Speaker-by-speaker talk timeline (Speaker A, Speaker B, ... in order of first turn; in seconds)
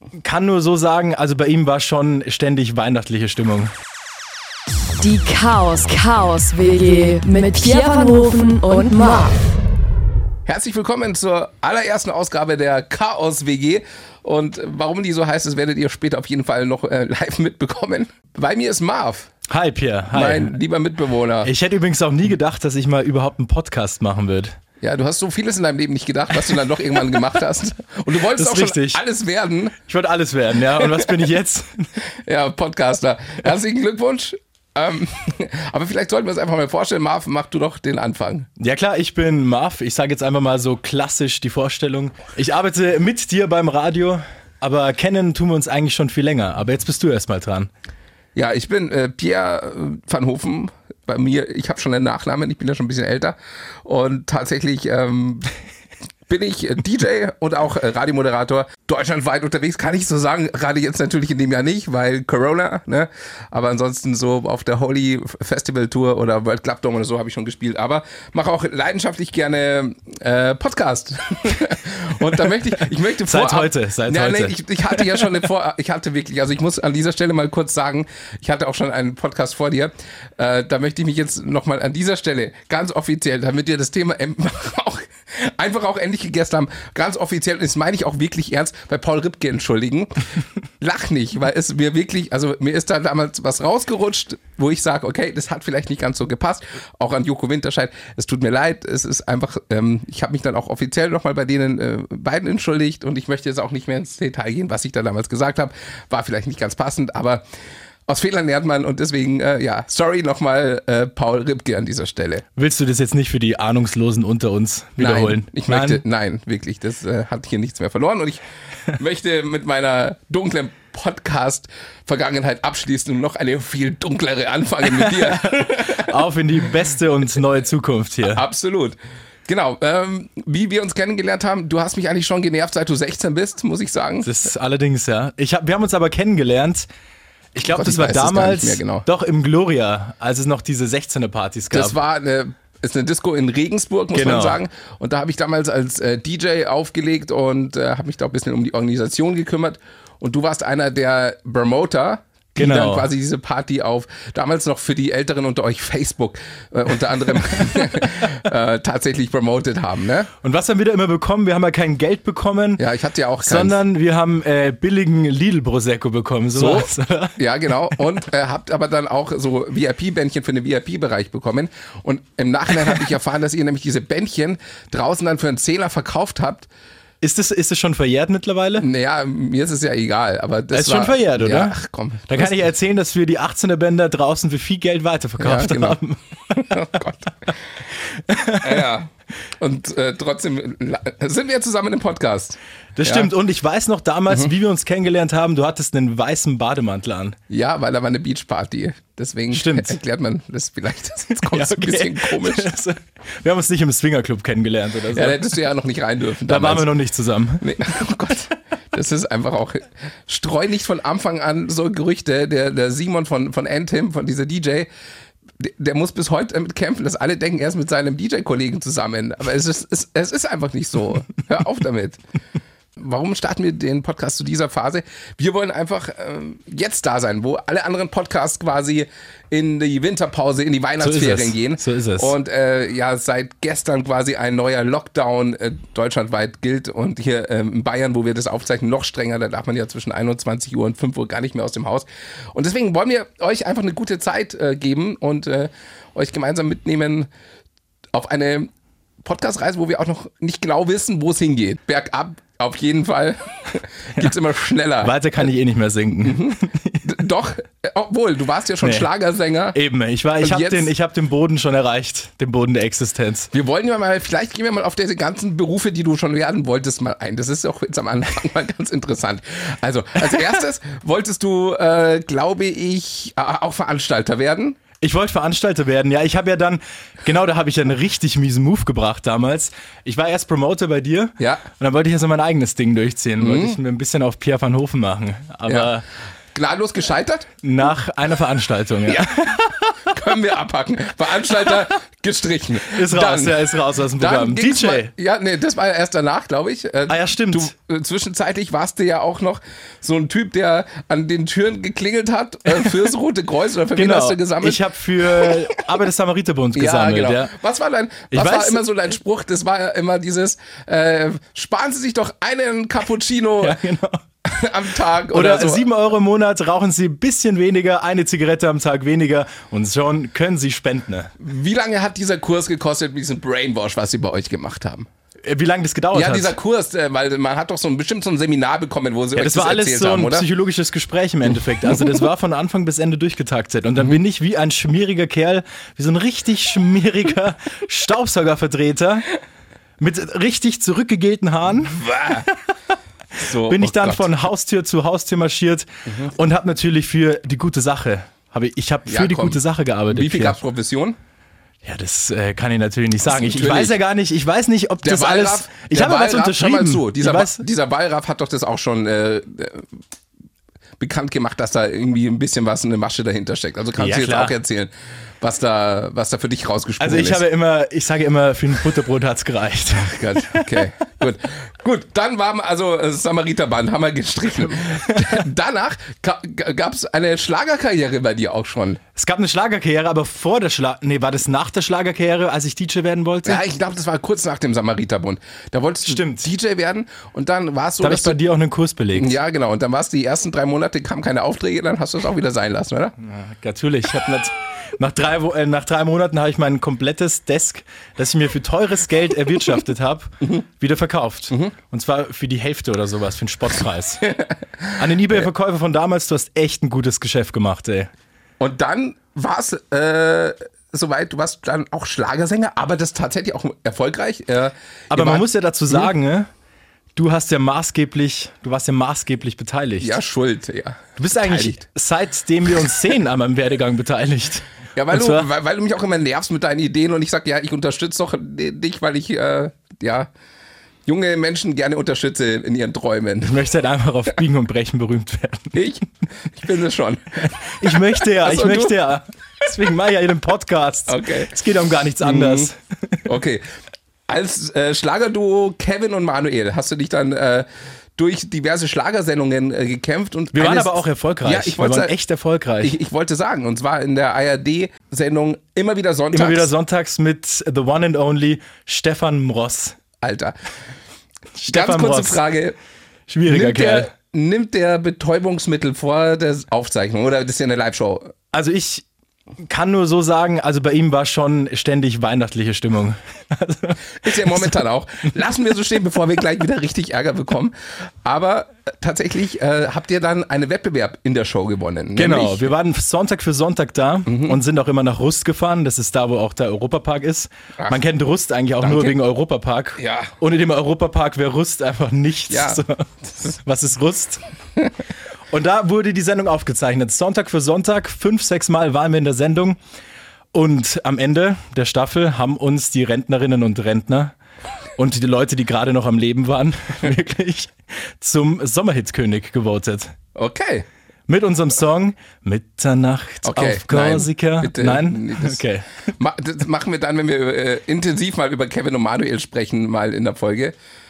Speaker A: 0.2-3.7, 19.5-20.6, 21.4-24.6, 28.3-29.0, 29.8-31.9, 38.6-47.7, 73.2-75.3, 112.5-116.0, 124.8-128.4, 134.2-136.9, 137.5-141.9, 144.1-144.6, 152.6-153.1, 157.7-158.1, 160.4-162.8, 163.4-167.3, 177.2-178.8, 180.7-181.8, 182.3-187.0, 188.1-188.9, 192.9-197.4, 199.5-200.0, 201.4-205.5, 206.5-207.8, 231.0-232.3, 255.0-257.2, 258.8-259.1, 259.7-263.5, 275.0-286.0, 287.6-289.9, 292.9-295.1, 297.1-297.7, 303.9-307.5, 308.3-308.8, 313.6-314.2, 315.3-321.3, 325.4-326.5, 329.3-339.2, 340.0-342.0, 343.4-350.6, 351.8-357.6, 364.0-364.6, 367.0-370.9, 379.1-383.6, 386.1-386.5, 388.0-389.4, 393.2-404.3, 404.9-408.1, 415.1-416.5, 417.1-420.2, 421.2-425.5, 433.4-435.8, 437.4-443.2, 450.5-452.9, 456.3-460.0, 461.6-462.4, 463.3-464.1, 468.5-469.0, 469.6-474.8, 482.1-494.4, 495.5-499.8, 500.5-504.3, 504.9-510.1, 511.3-515.9
Speaker B: 5.0-9.6
Speaker C: 10.4-19.3, 20.1-21.5, 24.8-29.8, 30.8-31.1, 32.2-38.5, 48.4-55.5, 56.3-90.3, 90.8-107.4, 108.1-112.4, 115.0-126.1, 128.3-129.0, 129.5-134.3, 137.7-139.0, 141.7-160.3, 162.8-163.8, 166.5-176.7, 178.8-182.6, 185.4-187.5, 188.6-193.3, 197.5-202.7, 205.1-206.9, 207.6-214.9, 215.6-222.2, 223.0-247.3, 248.1-248.7, 249.2-255.1, 256.2-259.8, 260.4-260.9, 263.5-274.8, 281.4-281.6, 283.4-283.8, 285.7-285.9, 286.5-287.5, 290.1-304.8, 306.7-313.8, 314.4-315.9, 321.4-325.1, 326.1-330.5, 341.9-342.5, 343.4-344.2, 349.1-351.2, 353.3-353.9, 355.0-359.9, 361.0-367.4, 369.9-379.0, 383.4-388.4, 389.1-393.1, 404.3-404.9, 408.6-416.1, 420.0-421.8, 424.9-430.3, 431.1-433.6, 435.7-439.0, 441.1-441.5, 442.2-442.7, 443.2-443.6, 444.3-452.1, 452.8-456.7, 460.2-460.5, 461.7-462.8, 463.4-468.3, 474.2-482.7, 484.3-484.6, 488.8-489.1, 490.0-490.3, 492.5-492.8, 510.4-510.9, 513.4-515.6, 516.1-520.7